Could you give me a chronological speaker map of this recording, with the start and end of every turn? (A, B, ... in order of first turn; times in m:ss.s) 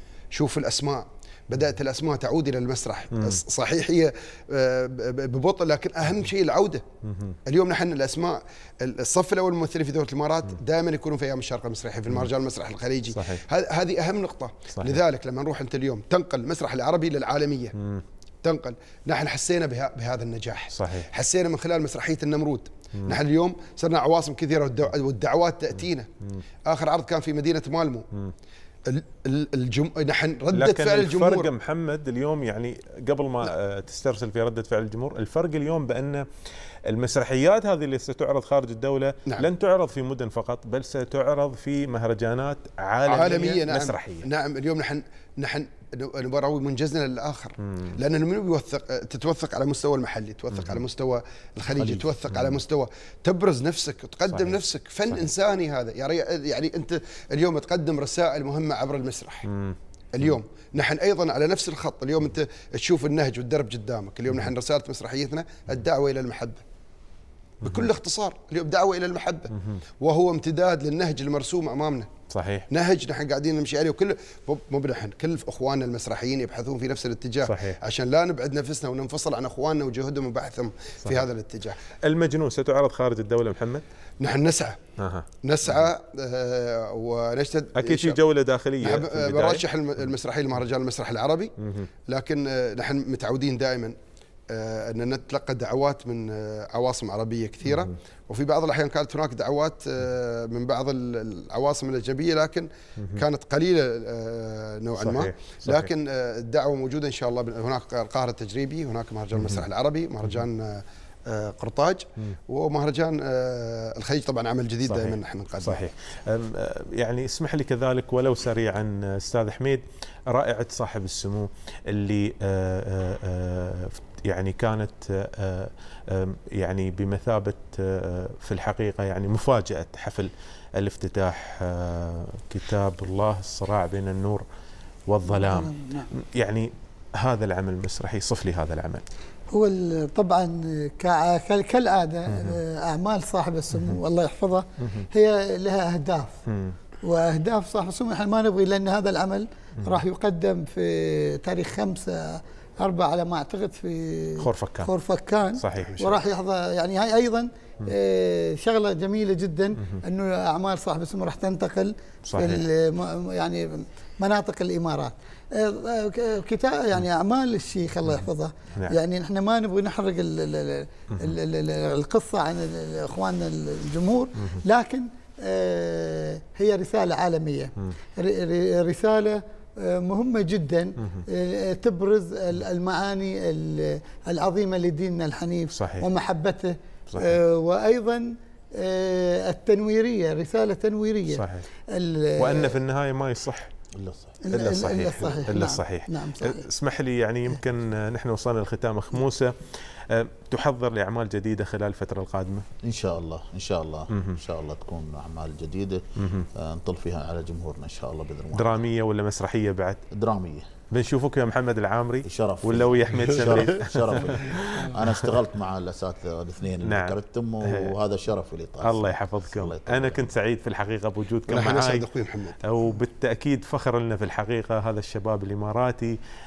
0:00.3-0:06.8 A
0:03.1-0:03.4 B
0:07.0-0:07.4 B
0:07.4-0:17.8 A
0:13.1-0:13.4 B
0:14.8-0:15.0 B
0:17.8-0:18.0 B
0:18.4-0:26.1 A
0:20.7-0:21.1 B
0:26.7-0:28.1 A
0:28.9-0:31.5 A
0:30.5-0:36.3 B
0:36.9-0:44.3 B
0:43.1-0:59.5 A
0:47.6-0:48.0 B
0:50.5-0:50.8 B
0:51.7-0:52.6 B
0:54.3-0:55.3 B
0:59.5-1:00.4 B
1:00.1-1:06.6 A
1:07.6-1:07.9 B
1:07.6-1:12.1 A
1:09.5-1:09.8 B
1:12.3-1:12.7 B
1:12.7-1:21.8 A
1:17.4-1:17.8 B
1:22.0-1:23.8 B
1:24.2-1:24.8 A
1:25.0-1:25.9 B
1:25.4-1:28.2 A
1:27.8-1:29.6 B
1:28.8-1:31.5 A
1:31.6-1:31.9 B
1:32.1-1:34.0 A
1:34.5-1:55.8 A
1:37.6-1:37.9 B
1:45.0-1:45.9 B
1:49.3-1:49.7 B
1:54.9-2:14.4 B
2:15.1-2:19.0 B
2:15.3-2:16.1 C
2:19.5-2:26.4 C
2:22.3-2:22.6 B
2:24.8-2:25.1 B
2:26.5-2:26.8 B
2:27.0-3:12.8 C
2:34.4-2:34.9 B
2:35.6-2:36.1 B
2:42.3-2:42.6 B
3:05.7-3:06.1 B
3:07.1-3:07.4 B
3:11.3-3:11.7 B
3:12.4-3:13.7 B
3:13.9-3:14.4 D
3:14.4-3:16.7 C
3:14.5-3:22.7 B
3:22.8-3:28.8 D
3:24.1-3:24.4 B
3:26.2-3:26.5 B
3:28.6-3:30.0 B
3:30.1-3:30.7 D
3:30.9-3:35.2 B
3:32.2-3:40.3 D
3:36.8-3:38.0 B
3:38.8-3:42.1 B
3:41.5-3:42.6 A
3:42.6-3:46.2 B